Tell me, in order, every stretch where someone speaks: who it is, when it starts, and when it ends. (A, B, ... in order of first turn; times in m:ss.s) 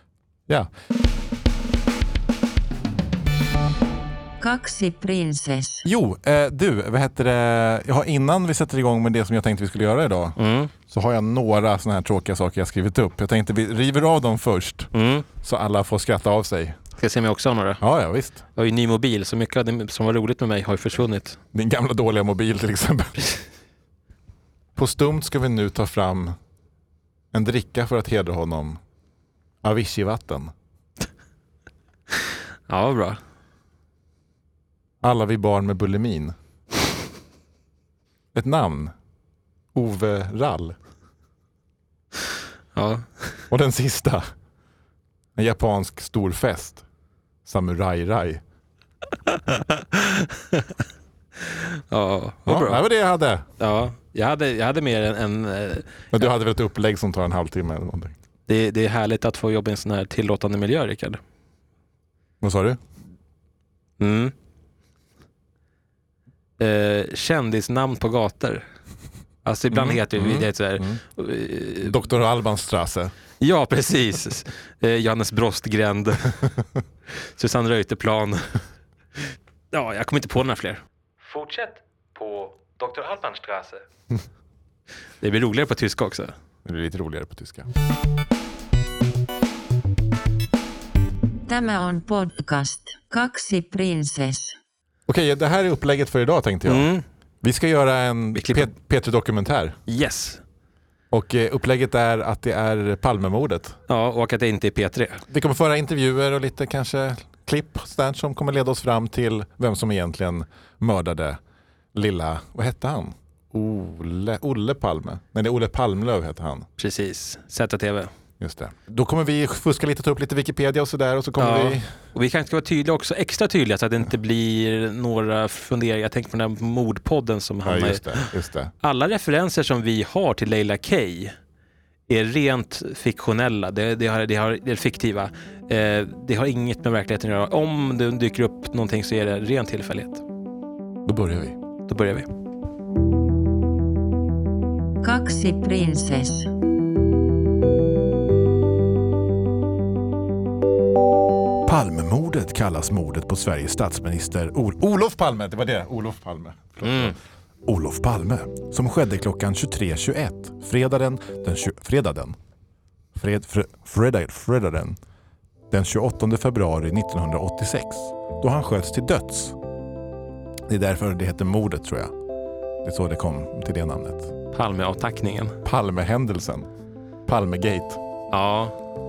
0:04.4-0:05.8 A
0:05.8-0:10.4 B
0:10.4-0:10.7 C
0:10.9-0:14.9 B
0:14.9-0:15.3 C
0:15.4-0:16.8 B
0:17.0-0:17.8 C
0:17.8-0:18.4 B
0:18.5-0:21.4 C
0:21.5-0:23.4 B
0:24.8-0:26.4 B
0:27.3-0:28.8 B
0:29.6-0:30.5 B
0:32.7-0:33.2 C
0:35.0-0:36.3 B
0:38.3-0:38.9 B
0:39.7-0:40.8 B
0:42.7-0:43.4 C
0:43.5-0:44.3 B
0:45.4-0:46.8 B
0:47.4-0:48.4 B
0:49.2-0:50.8 C
0:51.4-0:52.8 C
0:52.5-0:53.5 B
0:53.6-0:55.9 C
0:56.1-0:58.2 B
0:58.5-1:01.2 C
1:02.4-1:02.8 B
1:04.0-1:04.3 C
1:06.6-1:08.6 C
1:09.4-1:11.9 C
1:09.7-1:11.0 B
1:11.8-1:13.1 B
1:13.4-1:16.4 C
1:17.1-1:18.4 C
1:19.7-1:23.8 C
1:25.2-1:26.3 C
1:26.6-1:27.7 B
1:31.5-1:34.6 A
1:35.1-1:36.9 B
1:36.6-1:37.0 C
1:37.4-1:39.8 B
1:38.3-1:38.7 C
1:39.9-1:40.4 C
1:41.1-1:43.8 B
1:43.9-1:45.2 C
1:45.3-1:51.4 B
1:51.9-1:56.7 B
1:56.8-1:58.1 C
1:58.4-2:01.9 B
2:01.4-2:08.3 C
2:07.6-2:08.7 B
2:08.8-2:11.3 C
2:12.1-2:20.2 C
2:21.0-2:21.6 B
2:21.9-2:22.3 C
2:25.0-2:26.5 A
2:31.6-2:42.4 B
2:36.8-2:37.1 C
2:43.2-2:45.0 B
2:45.7-2:49.6 B
2:50.7-2:52.1 B
2:52.8-2:54.3 B
2:54.5-2:55.6 C
2:55.6-2:56.7 B
2:57.3-2:58.0 B
2:58.3-2:58.7 C